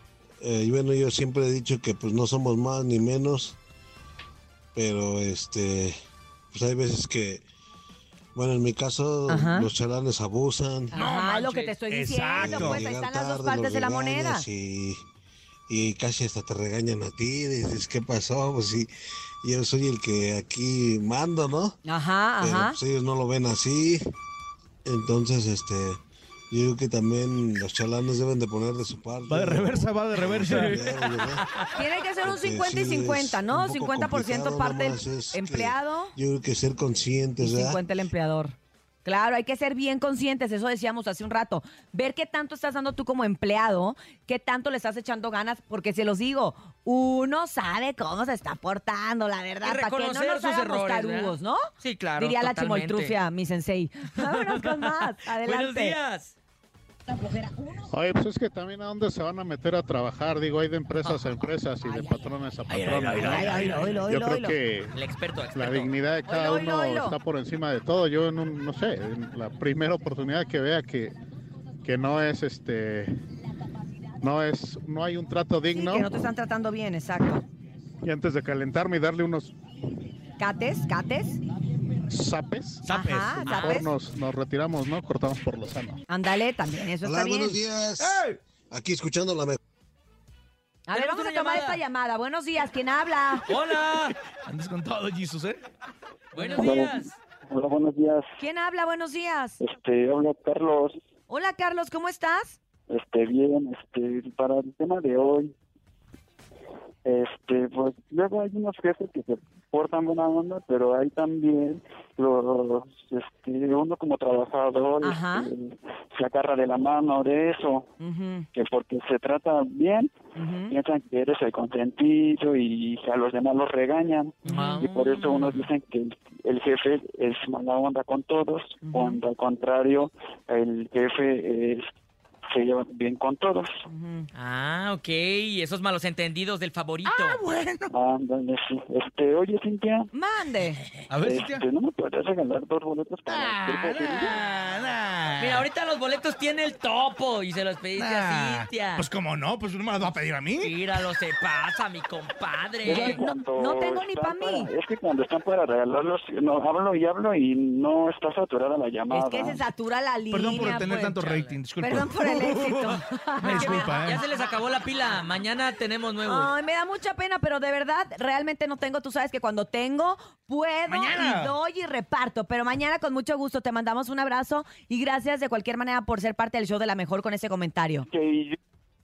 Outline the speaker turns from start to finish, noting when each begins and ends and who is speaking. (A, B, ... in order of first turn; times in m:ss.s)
0:00.4-0:03.6 A
0:04.7-0:06.0 A
0:06.5-0:07.4 A
0:08.3-0:11.0 A
0:09.3-0:09.7 B
0:10.9-0:14.4 B
0:10.9-0:12.8 C
0:12.4-0:15.0 A
0:15.7-0:18.9 A
0:19.4-0:21.8 A
0:21.8-0:22.8 B
0:22.4-0:24.0 A
0:24.8-0:26.0 A
0:26.5-0:31.4 A
0:29.3-0:30.8 C
0:30.8-0:31.6 D
0:31.8-0:36.1 B
0:32.2-0:37.8 A
0:37.4-0:56.0 B
0:49.6-0:53.2 D
0:54.2-0:56.3 D
0:57.1-0:57.9 B
0:57.9-1:05.0 E
1:01.8-1:02.2 B
1:02.7-1:04.0 C
1:02.9-1:03.8 D
1:03.2-1:04.6 B
1:04.9-1:05.9 D
1:05.5-1:11.2 E
1:06.3-1:07.2 B
1:11.8-1:13.1 E
1:14.2-1:16.1 E
1:15.7-1:17.4 B
1:18.0-1:19.5 E
1:20.4-1:21.4 B
1:22.1-1:22.8 E
1:22.8-1:23.6 C
1:22.9-1:23.9 B
1:23.4-1:26.0 E
1:23.5-1:23.9 D
1:26.1-1:27.6 B
1:27.0-1:29.6 A
1:28.0-1:28.4 C
1:30.9-1:33.4 B
1:30.9-1:31.8 D
1:33.5-1:34.1 D
1:34.4-1:35.6 C
1:36.3-1:37.1 D
1:36.5-1:38.2 F
1:38.4-1:39.6 B
1:39.6-1:41.0 F
1:41.3-1:42.6 B
1:42.9-1:45.5 F
1:47.0-1:57.9 F
1:55.0-1:55.5 B
1:58.0-1:58.4 B
1:58.5-2:00.1 F
2:00.4-2:00.7 B
2:00.7-2:11.8 F
2:04.4-2:05.6 D
2:08.8-2:09.2 B
2:12.5-2:13.7 F
2:13.9-2:14.3 B
2:14.3-2:17.4 D
2:17.0-2:17.9 C
2:17.9-2:20.1 F
2:20.1-2:20.8 B
2:21.1-2:21.6 C
2:21.1-2:24.4 F
2:23.3-2:25.7 C
2:25.4-2:29.0 D
2:27.9-2:30.8 C
2:30.6-2:33.2 D
2:32.8-2:39.6 F
2:32.9-2:34.7 B
2:39.1-2:41.2 B
2:40.3-2:44.2 C
2:40.6-2:41.6 D
2:41.8-2:44.2 B
2:43.4-2:46.5 D
2:46.2-2:58.1 B
2:50.8-2:51.6 C
2:58.1-2:58.6 F